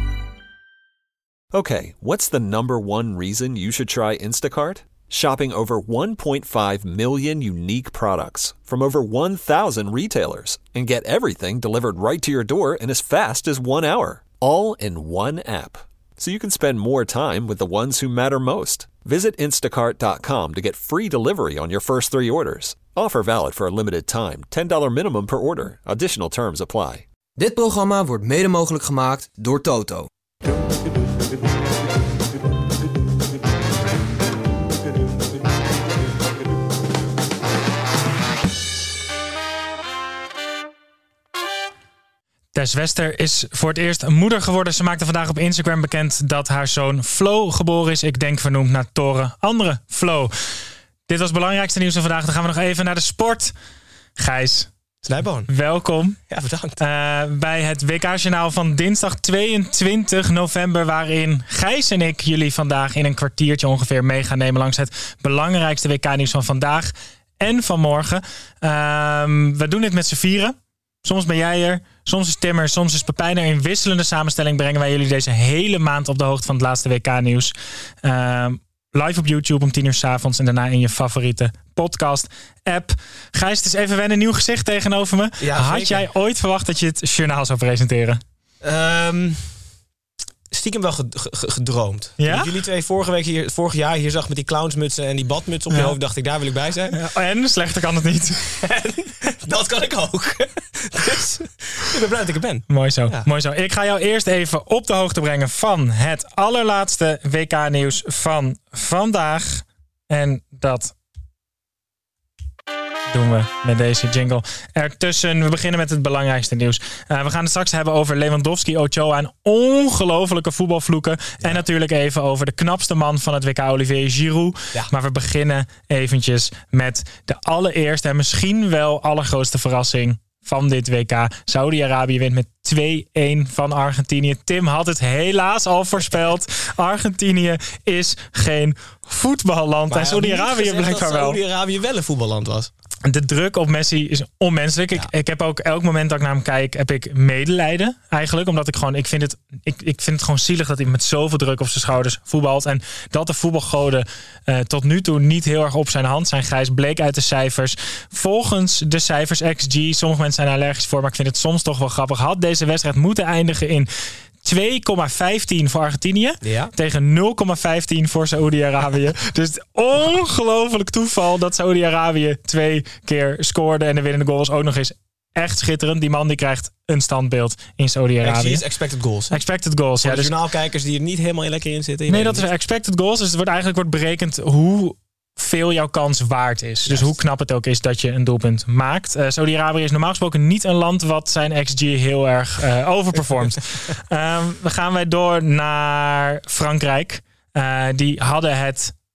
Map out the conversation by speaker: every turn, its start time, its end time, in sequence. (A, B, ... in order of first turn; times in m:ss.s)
0:01.5-0:27.0 A
0:27.4-0:30.1 B
0:42.5-0:50.3 C
0:51.1-0:53.5 C
0:54.2-0:54.7 C
0:55.0-0:55.5 D
0:55.5-0:56.2 C
0:56.3-0:56.8 D
0:56.8-1:28.2 C
1:25.4-1:26.0 D
1:28.6-1:29.5 D
1:30.5-1:37.0 D
1:32.2-1:32.5 C
1:35.7-1:36.0 C
1:36.9-1:38.6 C
1:38.6-1:43.3 D
1:42.7-1:50.9 C
1:53.1-2:21.4 C
2:19.9-2:22.7 D
2:23.0-2:43.9 C
2:44.4-2:58.6 C
2:46.4-2:46.7 D
2:58.2-2:59.4 D
2:59.3-3:00.3 C
3:00.0-3:02.5 D
3:02.1-3:18.9 C
3:06.9-3:07.2 D